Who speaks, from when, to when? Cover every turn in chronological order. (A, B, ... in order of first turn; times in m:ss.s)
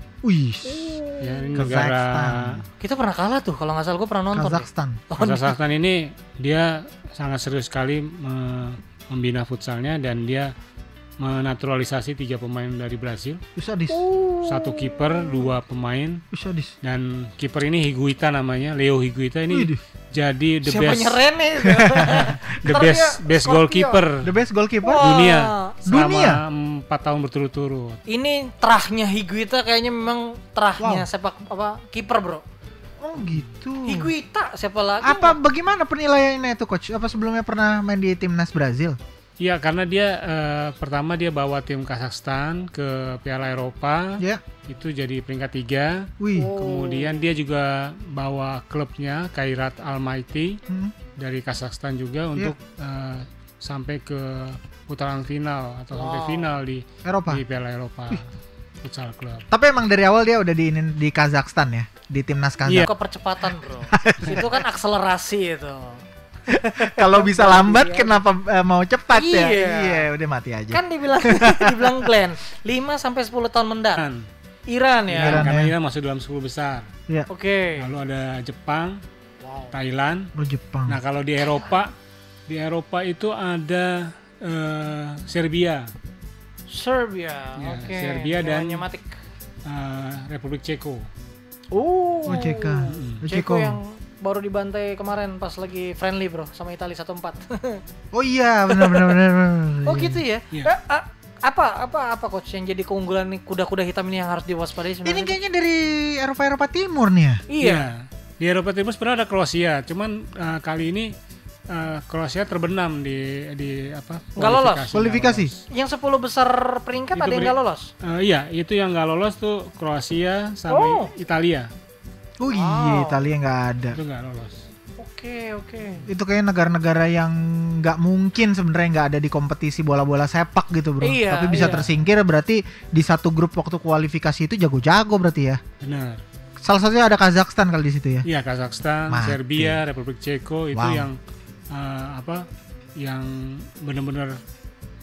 0:00.2-0:01.0 A
0:00.7-0:01.3 B
0:01.2-0:02.6 C
0:01.5-0:02.7 A
0:02.8-0:05.5 B
0:04.3-0:05.1 A
0:05.1-0:10.5 C
0:11.2-0:13.4 C
0:13.6-0:14.0 A
0:13.9-0:15.5 B
0:14.4-0:16.2 C
0:16.3-0:16.7 A
0:16.8-0:21.2 C
0:19.5-0:19.8 A
0:20.7-0:24.0 B
0:21.7-0:22.3 A
0:22.5-0:24.3 C
0:24.2-0:25.1 A
0:24.8-0:25.8 B
0:25.0-0:28.0 C
0:25.9-0:26.4 A
0:28.1-0:32.4 B
0:30.8-0:31.1 A
0:33.0-0:34.1 A
0:33.8-0:35.4 B
0:35.0-0:39.0 A
0:39.4-0:50.6 C
0:46.2-0:46.5 A
0:46.4-0:47.3 B
0:50.7-0:51.0 A
0:51.2-0:58.2 C
0:56.0-0:56.6 B
0:57.0-0:57.4 A
0:58.8-0:59.4 C
0:59.5-1:02.9 A
1:02.7-1:08.1 B
1:03.9-1:04.6 A
1:06.5-1:12.1 A
1:09.1-1:10.1 B
1:10.7-1:14.0 B
1:14.0-1:14.3 C
1:14.7-1:15.5 B
1:15.1-1:16.9 C
1:15.2-1:15.7 A
1:17.3-1:17.9 B
1:17.8-1:19.0 C
1:19.4-1:19.8 B
1:19.7-1:20.3 C
1:20.4-1:21.0 A
1:20.9-1:21.9 C
1:22.5-1:25.9 C
1:26.7-1:29.2 B
1:27.6-1:28.9 C
1:29.7-1:31.1 C
1:31.7-1:37.8 B
1:32.3-1:33.8 A
1:32.9-1:33.2 C
1:38.1-1:40.2 A
1:38.7-1:39.2 B
1:39.9-1:45.3 B
1:45.0-1:47.4 A
1:47.5-1:47.9 B
1:47.6-1:51.1 C
1:51.7-1:55.6 C
1:54.4-1:54.9 B
1:54.9-1:55.5 A
1:55.7-1:57.9 B
1:57.2-2:01.7 C
2:00.7-2:01.1 B
2:02.4-2:04.0 A
2:02.5-2:03.2 B
2:03.9-2:04.6 C
2:05.0-2:06.1 B
2:06.1-2:15.6 A
2:11.0-2:11.9 B
2:15.8-2:16.2 C
2:16.6-2:18.3 A
2:18.3-2:21.2 C
2:19.1-2:19.8 A
2:20.7-2:21.1 A
2:21.7-2:22.5 C
2:23.0-2:24.4 C